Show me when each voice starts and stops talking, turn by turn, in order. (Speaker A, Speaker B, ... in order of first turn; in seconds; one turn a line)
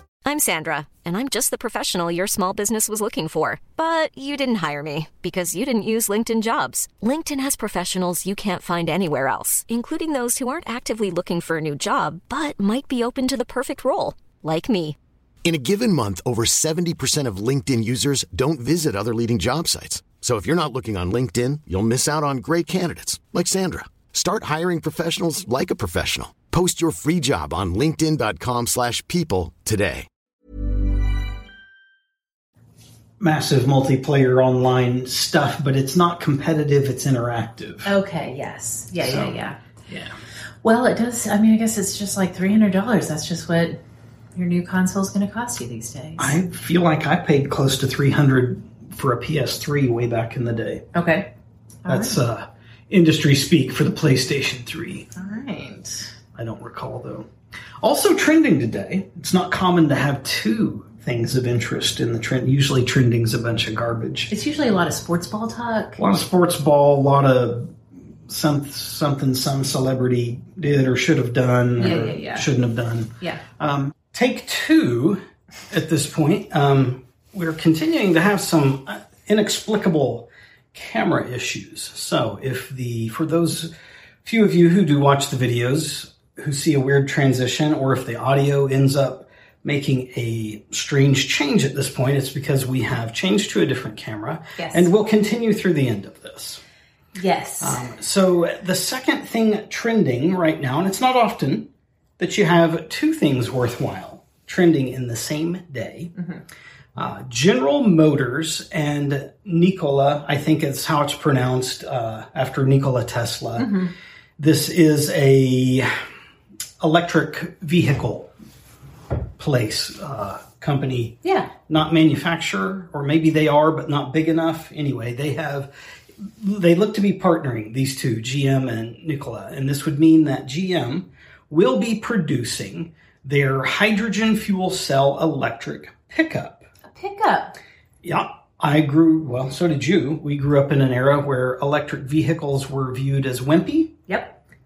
Speaker A: 0.2-15.0
Speaker B: 15.4-30.1
Speaker C: 33.2-37.9
Speaker D: 37.9-39.6
Speaker C: 39.0-39.4
Speaker D: 40.6-43.8
Speaker D: 44.4-46.4
Speaker C: 46.2-50.9
Speaker D: 50.9-51.3
Speaker D: 51.9-52.2
Speaker C: 51.9-55.1
Speaker D: 55.1-56.1
Speaker C: 56.4-57.3
Speaker C: 57.8-64.3
Speaker D: 64.3-66.0
Speaker C: 66.0-67.8
Speaker C: 68.3-83.7
Speaker D: 71.8-72.5
Speaker C: 84.2-96.6
Speaker D: 94.6-94.9
Speaker D: 97.2-97.8
Speaker C: 97.6-106.1
Speaker D: 106.2-106.4
Speaker C: 107.0-113.8
Speaker D: 113.6-113.9
Speaker C: 114.4-115.9
Speaker C: 116.8-118.3
Speaker C: 119.4-136.7
Speaker D: 121.2-121.5
Speaker D: 136.9-137.6
Speaker C: 138.0-144.0
Speaker D: 144.1-144.4